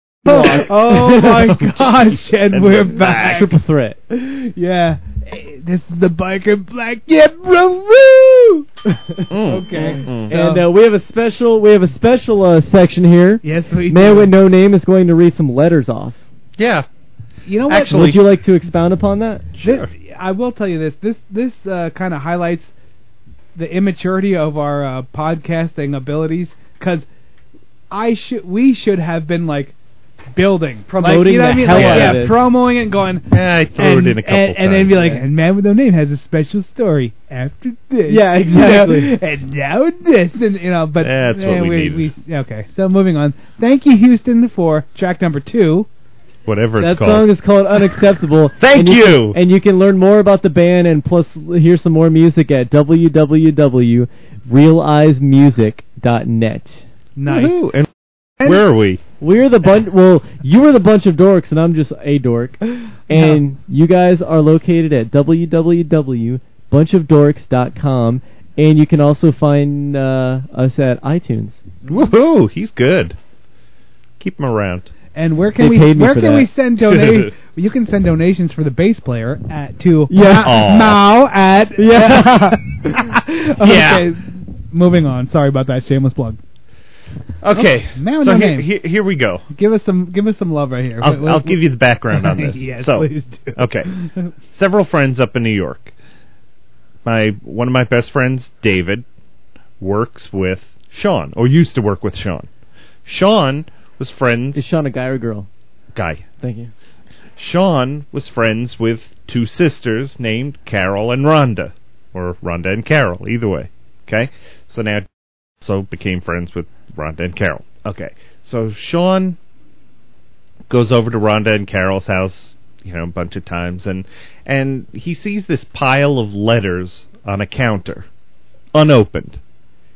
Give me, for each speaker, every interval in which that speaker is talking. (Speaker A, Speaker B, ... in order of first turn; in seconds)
Speaker A: 0.2-1.6, 3.0-4.0, 9.7-16.2, 17.9-19.5, 30.9-32.4, 35.0-35.2, 38.1-39.2, 46.8-56.7, 59.2-71.6, 75.6-76.5, 80.1-80.6, 81.8-82.9, 104.5-105.5, 106.4-106.7
Speaker B: 0.3-3.5, 4.1-8.7, 9.4-10.7, 13.4-14.3, 17.5-18.1, 19.6-22.7, 23.6-27.1, 27.9-29.8, 30.4-45.9, 57.2-57.6, 63.1-63.4, 75.2-86.4, 87.5-88.7, 89.5-94.3
Speaker C: 1.8-3.4, 9.3-10.3, 16.6-16.9, 17.7-18.2, 19.6-19.9, 31.7-32.3, 33.3-35.1, 41.0-42.1, 46.5-47.3, 48.6-49.4, 57.3-57.9, 58.4-59.0, 71.9-73.2, 74.2-74.9, 77.0-77.3, 80.3-81.1, 83.6-84.1, 87.4-89.4, 91.0-93.9, 94.5-95.9, 97.0-99.0, 99.8-102.5, 103.0-104.6, 105.9-106.2, 107.4-115.1, 115.6-119.4, 120.7-128.1, 128.7-129.4